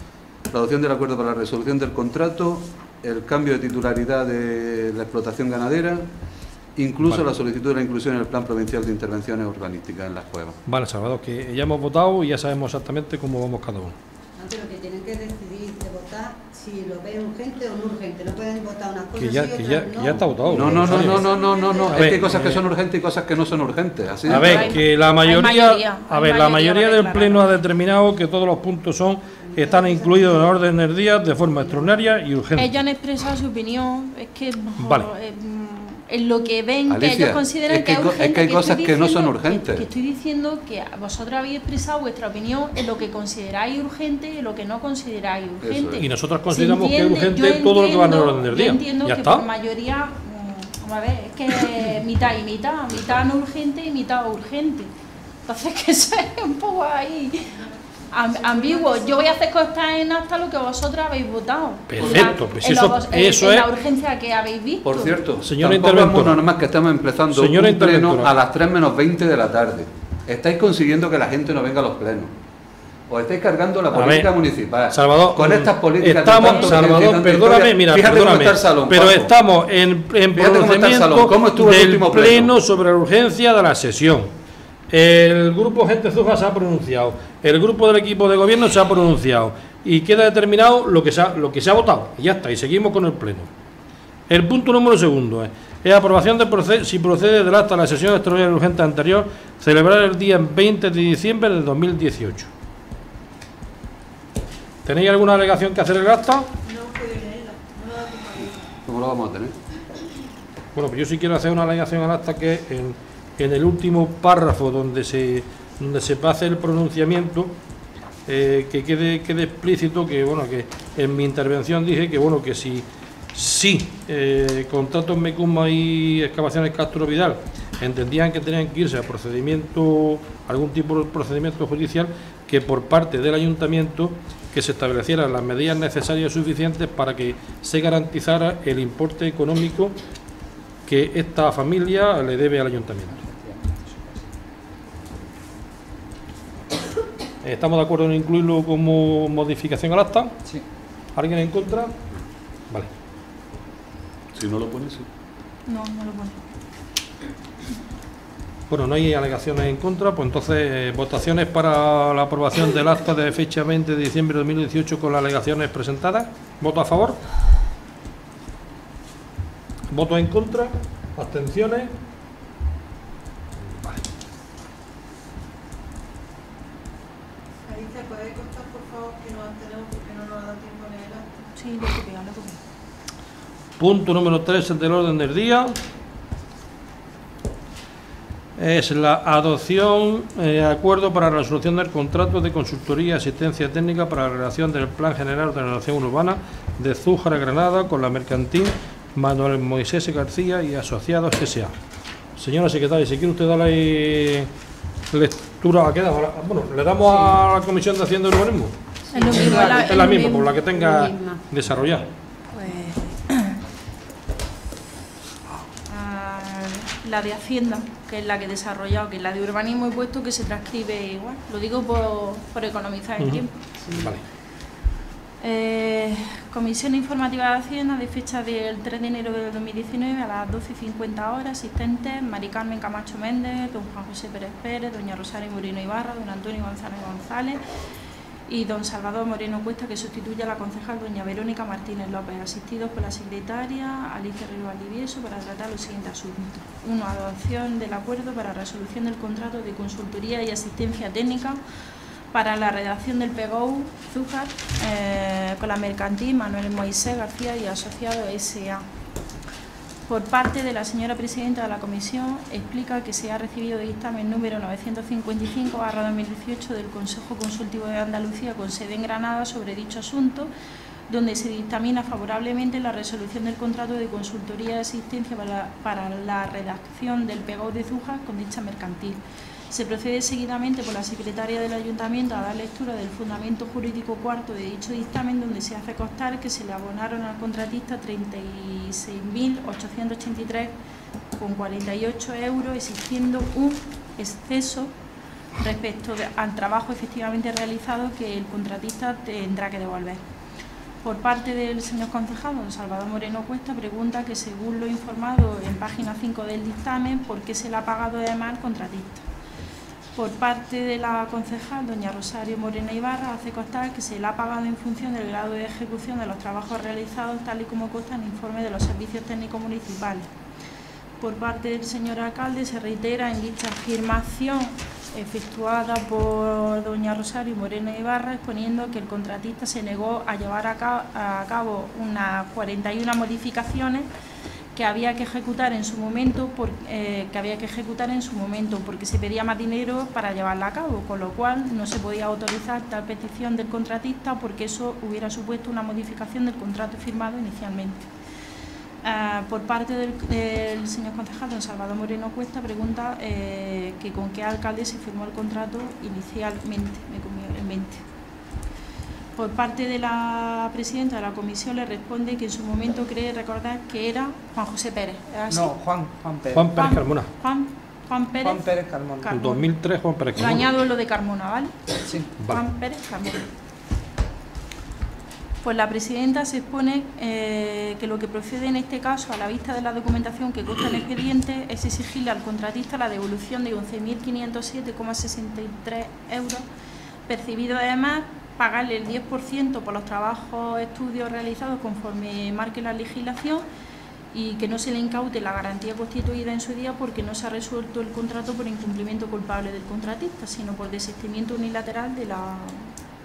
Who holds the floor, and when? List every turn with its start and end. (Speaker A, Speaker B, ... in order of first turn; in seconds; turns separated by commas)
Speaker A: 0.5-6.1, Speaker A: 6.8-10.6, Speaker B: 7.0-7.3, Speaker B: 10.7-13.9, Speaker C: 14.4-21.6, Speaker B: 19.2-21.3, Speaker A: 20.5-24.8, Speaker D: 21.2-21.9, Speaker B: 21.9-22.6, Speaker B: 24.3-32.7, Speaker E: 24.3-27.6, Speaker C: 29.5-30.4, Speaker E: 32.5-54.9, Speaker B: 34.8-35.1, Speaker A: 36.9-39.8, Speaker A: 45.6-46.0, Speaker B: 46.0-49.4, Speaker E: 55.5-57.6, Speaker E: 58.1-65.2, Speaker D: 58.2-59.4, Speaker B: 61.9-63.7, Speaker A: 62.0-62.2, Speaker A: 64.8-72.3, Speaker B: 65.4-66.4, Speaker B: 67.3-68.3, Speaker A: 73.1-79.3, Speaker B: 73.9-74.3, Speaker B: 74.9-84.3, Speaker E: 76.4-76.7, Speaker A: 80.4-82.5, Speaker B: 84.9-93.5, Speaker B: 94.3-102.5, Speaker B: 104.8-106.5, Speaker D: 106.6-108.7, Speaker A: 108.8-109.5, Speaker B: 110.7-117.5, Speaker B: 118.3-139.9, Speaker B: 140.9-143.2, Speaker F: 143.1-143.9, Speaker B: 147.4-150.3, Speaker B: 151.2-151.9, Speaker A: 154.3-155.1, Speaker E: 155.7-156.4, Speaker B: 158.7-167.2, Speaker B: 169.9-171.9, Speaker B: 173.7-174.0, Speaker D: 177.6-181.4, Speaker E: 181.6-182.6, Speaker B: 183.8-185.8, Speaker B: 188.6-201.7, Speaker B: 202.4-204.5, Speaker B: 205.1-208.7, Speaker C: 209.1-209.9, Speaker E: 209.1-210.5, Speaker B: 209.3-212.1, Speaker C: 210.7-211.4, Speaker E: 212.5-213.6, Speaker E: 215.9-223.5, Speaker B: 223.2-224.2, Speaker E: 225.4-237.6, Speaker E: 238.5-251.6, Speaker E: 252.3-258.8, Speaker E: 260.1-270.5, Speaker E: 271.1-279.2, Speaker E: 279.7-290.7, Speaker E: 291.4-294.9, Speaker E: 295.6-300.2, Speaker E: 301.0-309.2, Speaker E: 310.1-320.3, Speaker E: 321.2-334.1, Speaker E: 334.7-348.1, Speaker E: 349.0-358.0, Speaker E: 359.4-365.7, Speaker F: 365.5-366.7, Speaker B: 366.5-367.3, Speaker E: 366.8-368.7, Speaker F: 368.4-369.3, Speaker E: 369.2-369.6, Speaker B: 369.3-370.6, Speaker E: 370.3-373.4, Speaker E: 375.6-386.6, Speaker E: 387.3-393.6, Speaker E: 394.3-402.9